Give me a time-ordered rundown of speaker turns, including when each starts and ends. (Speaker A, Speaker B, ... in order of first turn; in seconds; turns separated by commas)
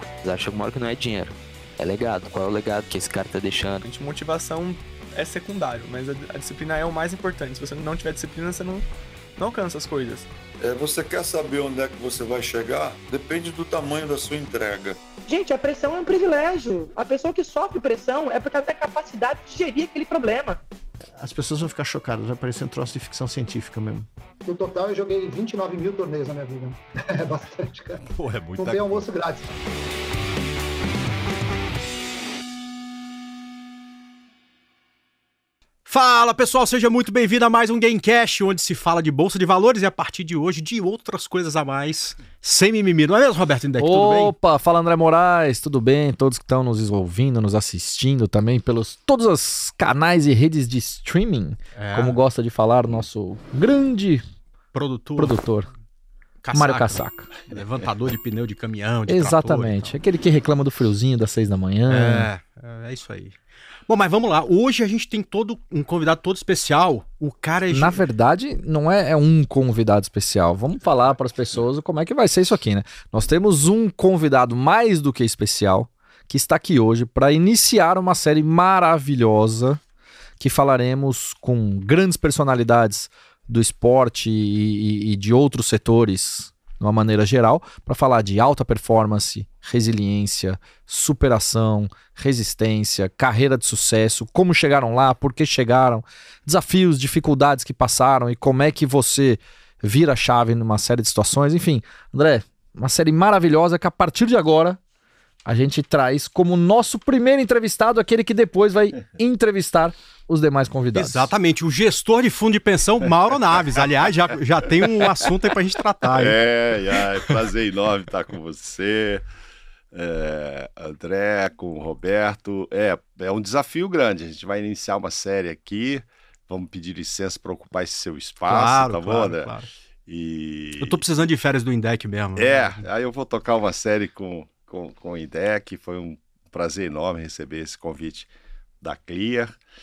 Speaker A: 0.2-3.8, Speaker B: 3.8-10.3, Speaker C: 10.6-15.0, Speaker D: 15.3-20.6, Speaker E: 21.2-24.1, Speaker F: 24.4-29.5, Speaker G: 28.1-29.1, Speaker H: 35.9-44.3, Speaker I: 43.8-54.2, Speaker H: 51.7-52.2, Speaker H: 54.7-55.4, Speaker I: 55.2-55.7, Speaker H: 56.4-60.0, Speaker I: 56.5-57.3, Speaker I: 59.1-62.3, Speaker H: 61.9-68.0, Speaker I: 67.7-79.8, Speaker I: 80.4-104.8, Speaker I: 105.5-111.3, Speaker H: 111.0-116.4, Speaker G: 116.1-119.2, Speaker G: 119.9-129.5, Speaker H: 128.4-129.7, Speaker G: 130.1-131.0, Speaker H: 130.8-132.8, Speaker G: 132.3-139.6